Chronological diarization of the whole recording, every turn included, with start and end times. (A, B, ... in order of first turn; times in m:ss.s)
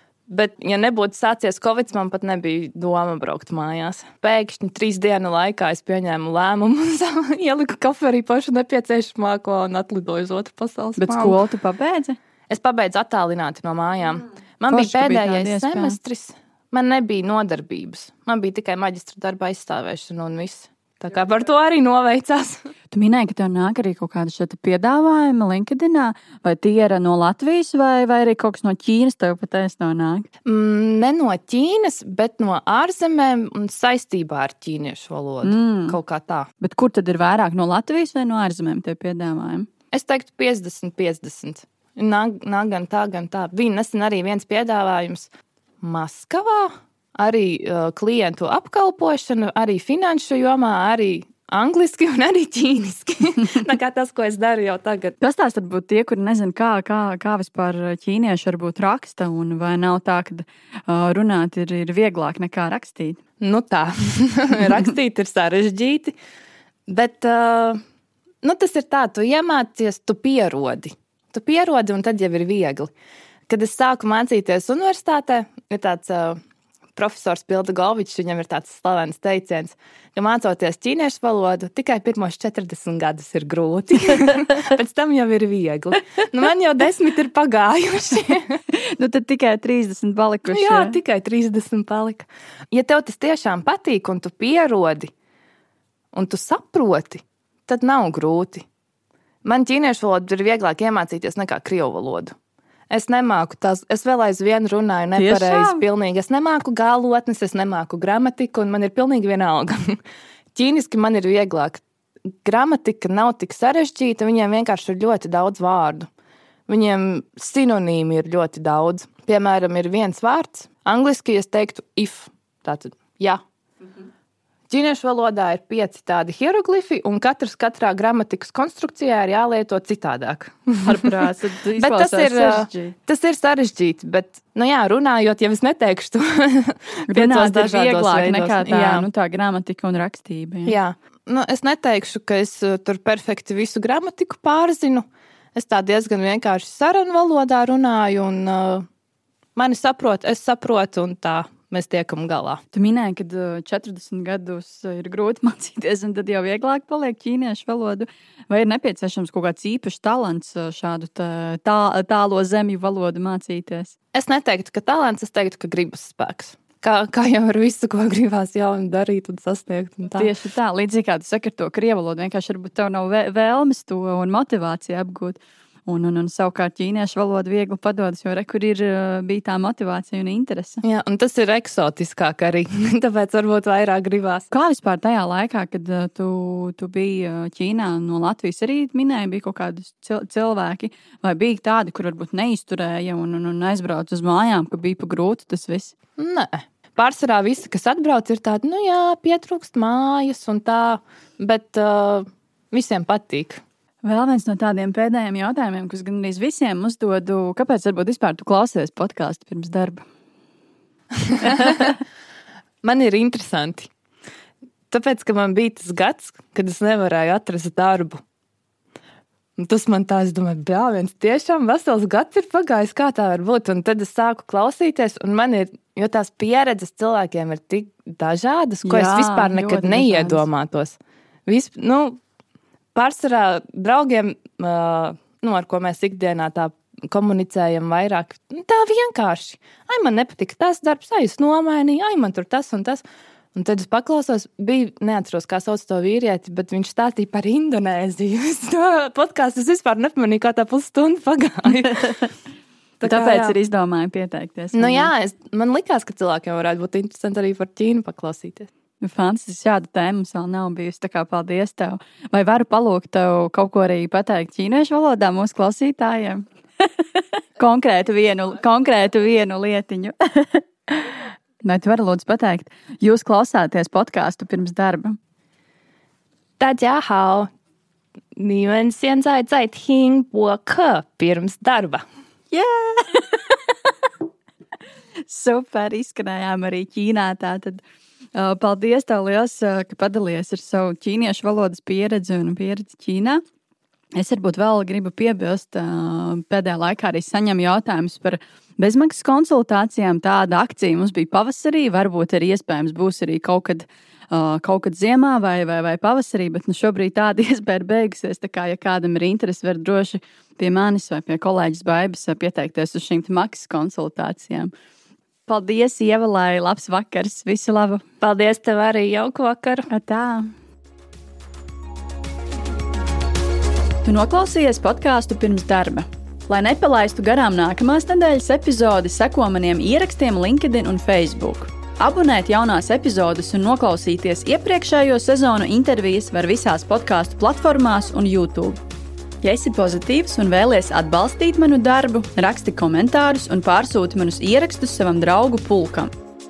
0:00.3-0:11.4 A
0:11.0-0:12.2 B
0:12.5-0:22.6 A
0:14.7-0:16.0 B
0:22.9-0:30.3 B
0:30.4-0:36.5 A
0:35.4-0:36.0 B
0:36.6-0:39.7 B
0:39.9-0:45.3 A
0:45.8-0:55.2 A
0:55.2-1:03.2 B
1:03.4-1:06.2 A
1:06.9-1:07.8 A
1:08.4-1:12.9 A
1:13.5-1:16.4 A
1:17.0-1:28.6 A
1:28.7-1:31.0 B
1:30.5-1:35.1 A
1:36.1-1:38.6 A
1:39.4-1:42.3 A
1:42.9-1:50.0 A
1:45.2-1:45.8 B
1:50.5-1:51.8 A
1:52.4-1:56.1 A
1:56.7-2:03.4 A
2:04.7-2:11.2 A
2:10.8-2:13.0 B
2:11.8-2:19.1 A
2:17.1-2:20.8 B
2:20.7-2:25.0 A
2:25.6-2:28.9 A
2:29.6-2:32.6 A
2:32.7-2:43.9 B
2:44.1-2:50.3 A
2:50.1-3:00.8 B
3:00.8-3:04.5 A
3:04.5-3:15.9 B
3:16.2-3:23.6 A
3:24.0-3:30.1 B
3:31.2-3:32.0 A
3:31.4-3:31.9 B
3:32.8-3:33.9 A
3:34.9-3:38.2 A
3:39.6-3:52.2 A
3:48.8-3:50.4 B
3:53.0-4:03.0 A
4:03.6-4:12.2 A
4:11.9-4:12.3 B
4:13.0-4:13.6 A
4:13.0-4:15.1 B
4:14.7-4:18.7 A
4:19.0-4:35.2 B
4:36.6-4:37.5 A
4:38.4-4:42.0 A
4:42.5-4:43.9 B
4:45.3-4:47.8 B
4:48.4-4:53.4 B
4:54.2-5:14.7 B
5:15.5-5:18.0 B
5:18.2-5:19.9 A
5:19.9-5:20.5 B
5:24.0-5:38.8 B
5:39.4-5:46.1 B